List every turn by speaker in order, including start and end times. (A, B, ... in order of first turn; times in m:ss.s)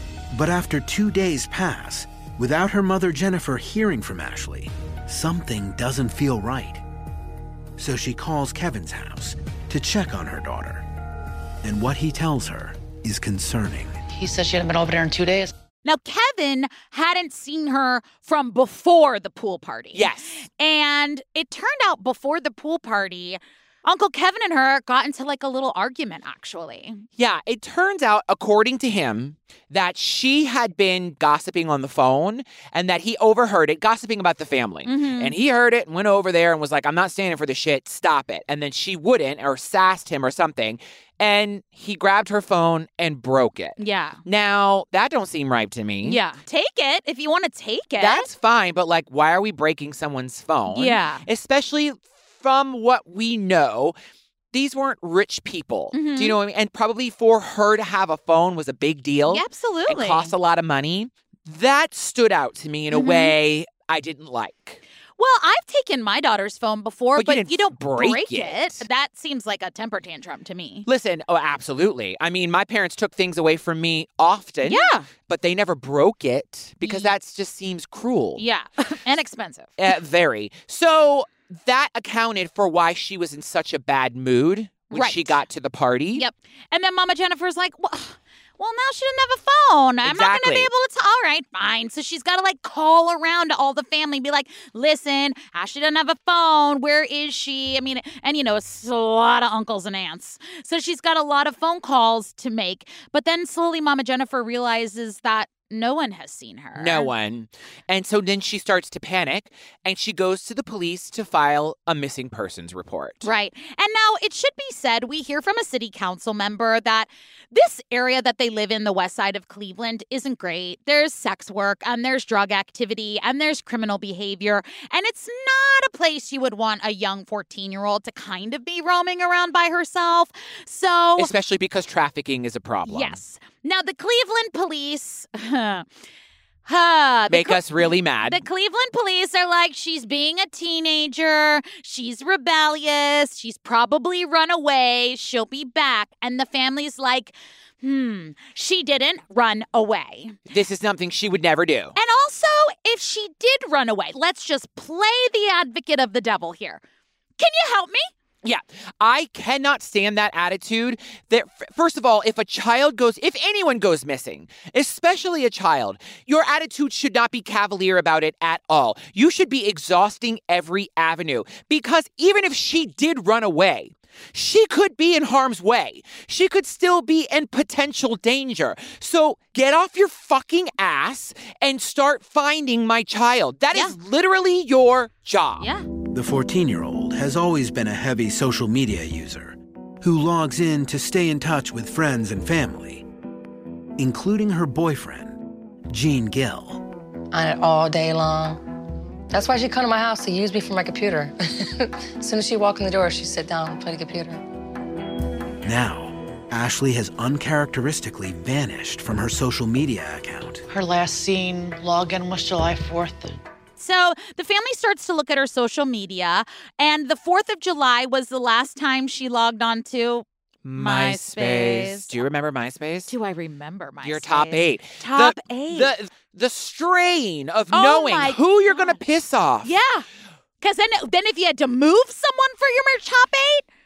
0:00.3-0:06.8 A
0:07.8-0:10.8 A
0:11.6-0:14.0 A
0:14.1-0:15.5 B
0:15.8-0:27.0 C
0:19.9-0:20.4 D
0:27.2-0:46.2 D
0:34.8-0:35.4 C
0:43.8-0:44.2 C
0:46.0-0:48.3 C
0:48.0-0:54.0 D
0:50.7-0:51.3 C
0:54.5-1:04.8 D
0:55.9-0:56.4 C
0:59.3-1:00.3 C
1:02.9-1:03.4 C
1:05.2-1:10.9 C
1:07.2-1:08.9 D
1:10.9-1:18.4 D
1:14.6-1:15.1 C
1:16.8-1:17.1 C
1:18.4-1:19.8 C
1:19.8-1:26.2 D
1:24.9-1:25.4 C
1:26.2-1:47.1 C
1:30.0-1:30.7 D
1:46.8-1:53.3 D
1:53.2-2:11.3 C
2:11.2-2:13.2 D
2:12.9-2:15.9 C
2:16.7-2:30.4 C
2:17.3-2:18.4 D
2:30.5-2:32.0 D
2:32.0-2:36.8 C
2:37.4-2:38.1 C
2:38.4-3:05.7 D
3:05.6-3:05.9 C
3:06.1-3:13.0 A
3:14.0-3:16.8 A
3:17.3-3:18.6 E
3:19.3-3:24.4 E
3:25.6-3:30.6 A
3:30.7-3:33.4 B
3:33.8-3:42.2 C
3:40.6-3:43.1 D
3:43.1-3:45.9 C
3:44.0-3:49.7 D
3:47.7-3:49.0 C
3:49.6-3:50.0 C
3:50.6-3:53.6 C